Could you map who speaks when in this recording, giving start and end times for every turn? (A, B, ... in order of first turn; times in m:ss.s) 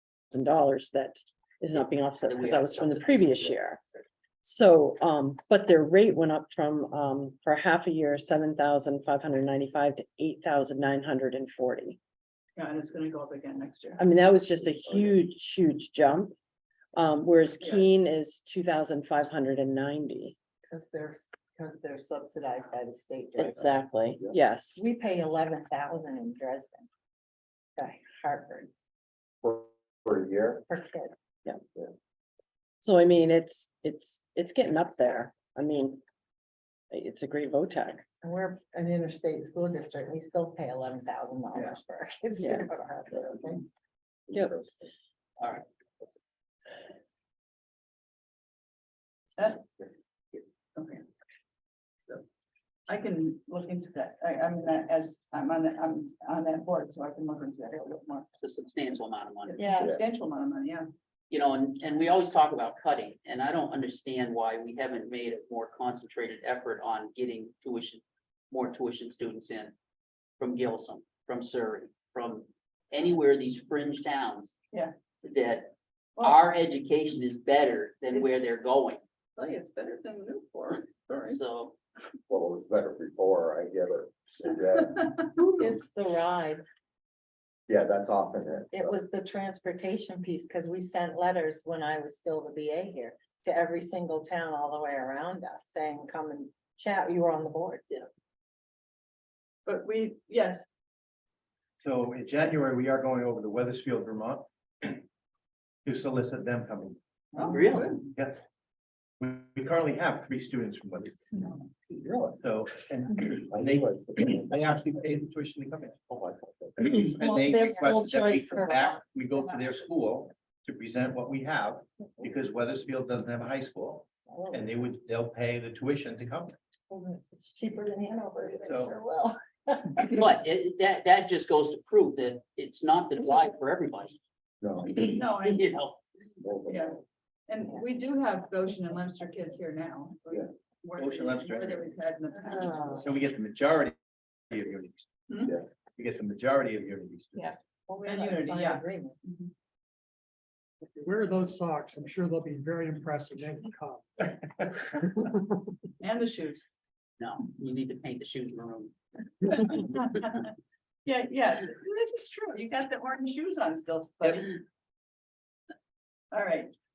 0:00.3-0:03.8 A
0:02.2-0:03.5 B
0:04.4-0:12.0 A
0:12.6-0:14.0 C
0:14.0-0:16.3 A
0:16.9-0:20.4 A
0:20.7-0:23.7 D
0:23.4-0:24.8 A
0:24.8-0:26.9 D
0:27.8-0:28.7 D
0:29.4-0:30.6 E
0:30.7-0:31.1 D
0:32.8-0:36.0 A
0:36.9-0:38.0 A
0:38.2-0:43.6 D
0:42.4-0:42.7 A
0:44.3-0:44.9 E
0:45.4-0:45.6 B
0:49.4-0:49.6 C
0:52.9-0:58.2 C
0:58.4-0:59.8 B
0:59.5-1:00.8 C
0:59.7-1:00.0 E
1:01.3-1:09.7 B
1:10.4-1:14.6 B
1:15.2-1:19.0 B
1:19.4-1:21.4 C
1:21.2-1:21.8 B
1:22.3-1:25.0 E
1:25.4-1:26.6 D
1:27.7-1:28.7 E
1:28.7-1:38.1 D
1:39.7-1:40.6 C
1:41.8-1:45.0 F
1:45.8-1:48.4 F
1:47.4-1:48.0 C
1:47.5-1:48.0 B
1:49.2-1:51.3 F
1:52.0-1:52.4 E
1:52.3-1:56.1 F
1:53.5-1:54.2 E
1:56.1-1:56.9 E
1:56.8-2:06.5 F
1:57.0-1:59.0 D
2:04.3-2:04.9 D
2:06.9-2:10.2 D
2:08.6-2:09.0 F
2:10.0-2:14.2 B
2:14.6-2:15.1 E
2:14.8-2:16.0 B
2:15.2-2:15.6 C
2:16.4-2:16.9 E
2:17.5-2:23.0 C
2:20.9-2:22.0 F
2:22.4-2:23.1 D
2:22.9-2:25.1 F
2:25.9-2:27.5 F
2:27.4-2:29.2 D
2:28.0-2:28.8 C
2:30.8-2:34.4 G
2:36.0-2:36.6 C
2:37.2-2:38.9 B
2:41.0-2:44.5 C
2:46.3-2:46.7 C